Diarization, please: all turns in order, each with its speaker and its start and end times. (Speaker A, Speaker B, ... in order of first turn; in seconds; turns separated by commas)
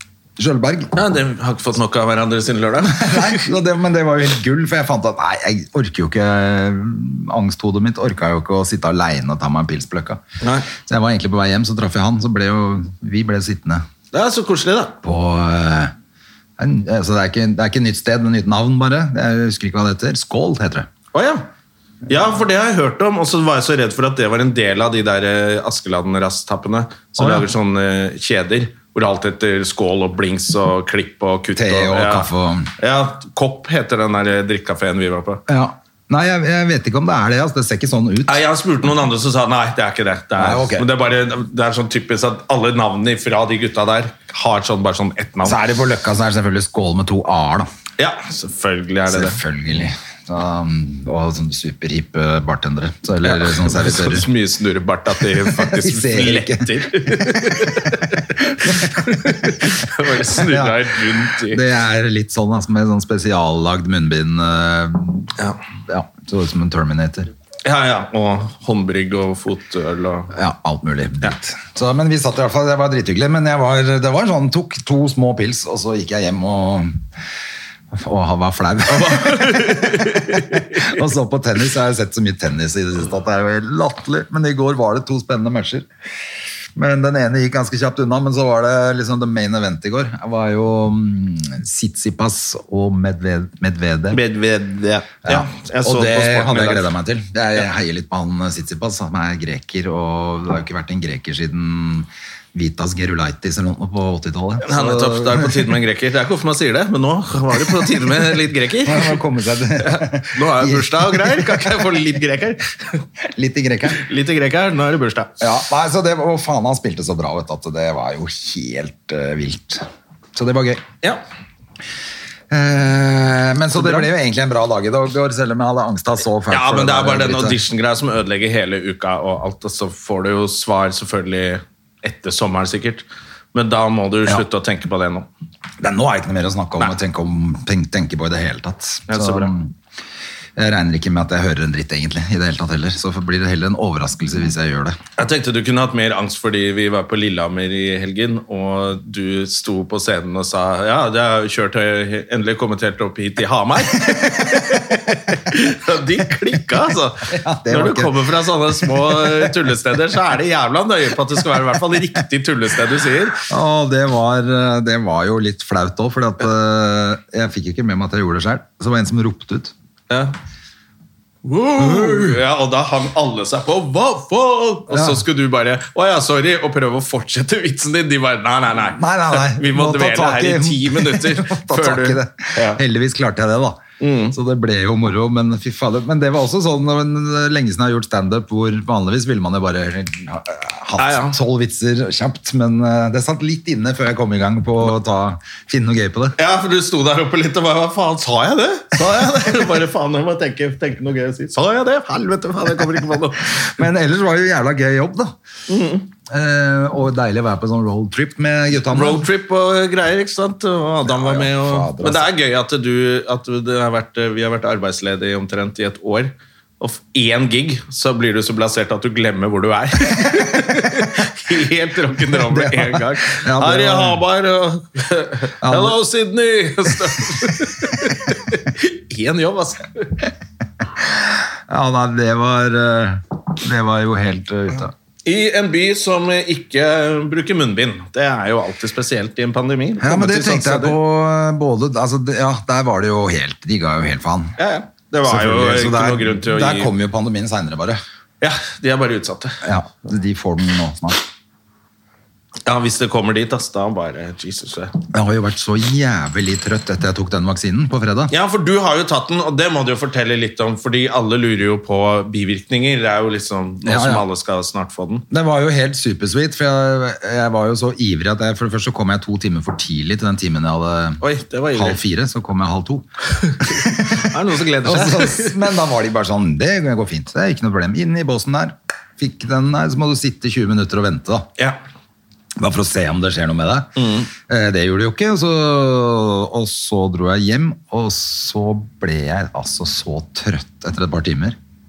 Speaker A: 0.4-0.9, Speaker B: 0.9-3.5, Speaker A: 2.8-10.2, Speaker B: 10.4-10.7, Speaker A: 10.7-13.8, Speaker B: 14.1-15.0, Speaker A: 15.0-15.9, Speaker A: 16.6-20.9, Speaker B: 21.1-21.4, Speaker B: 22.1-32.3, Speaker A: 27.2-27.5, Speaker A: 31.6-32.7, Speaker B: 32.8-35.4, Speaker A: 35.5-38.4, Speaker B: 38.3-45.6, Speaker A: 40.4-40.9, Speaker A: 45.4-47.7, Speaker B: 48.0-49.4, Speaker A: 49.1-54.2, Speaker B: 53.2-61.6, Speaker A: 55.4-59.7, Speaker A: 60.2-65.3, Speaker A: 65.9-67.3, Speaker B: 67.6-70.3, Speaker A: 70.3-77.0, Speaker A: 77.9-85.9, Speaker B: 78.9-81.0, Speaker A: 86.8-94.2, Speaker B: 94.1-96.9, Speaker A: 95.2-105.7, Speaker B: 104.6-109.2, Speaker A: 108.8-111.9, Speaker B: 109.8-113.0, Speaker A: 113.2-114.0, Speaker B: 113.9-115.3, Speaker A: 115.4-120.8, Speaker A: 122.5-127.6, Speaker B: 123.8-124.0, Speaker B: 126.5-135.3, Speaker A: 135.8-139.7, Speaker B: 139.1-139.5, Speaker A: 140.6-145.0, Speaker B: 145.2-163.4, Speaker A: 154.1-154.9, Speaker A: 157.3-158.2, Speaker A: 158.8-159.6, Speaker A: 163.5-169.7, Speaker B: 170.1-170.3, Speaker B: 171.4-182.8, Speaker A: 171.8-172.4, Speaker A: 174.9-175.2, Speaker A: 178.9-196.4, Speaker B: 184.0-184.3, Speaker B: 191.0-191.4, Speaker B: 196.4-203.8, Speaker A: 198.9-199.6, Speaker A: 203.7-205.3, Speaker B: 205.7-206.1, Speaker A: 206.3-209.2, Speaker B: 208.9-230.2, Speaker A: 211.0-212.3, Speaker A: 220.2-220.7, Speaker A: 222.3-224.2, Speaker A: 225.6-226.0, Speaker A: 231.0-234.9, Speaker B: 235.2-241.0, Speaker A: 240.0-244.5, Speaker B: 244.6-246.9, Speaker A: 245.2-248.0, Speaker B: 248.4-249.6, Speaker A: 249.6-251.2, Speaker B: 252.7-254.9, Speaker A: 255.1-258.3, Speaker B: 258.3-265.2, Speaker A: 263.8-264.2, Speaker A: 265.3-271.2, Speaker B: 271.2-272.0, Speaker A: 271.7-273.1, Speaker A: 273.6-274.3, Speaker B: 273.8-275.6, Speaker A: 274.8-281.5, Speaker A: 282.6-291.6, Speaker B: 284.0-284.3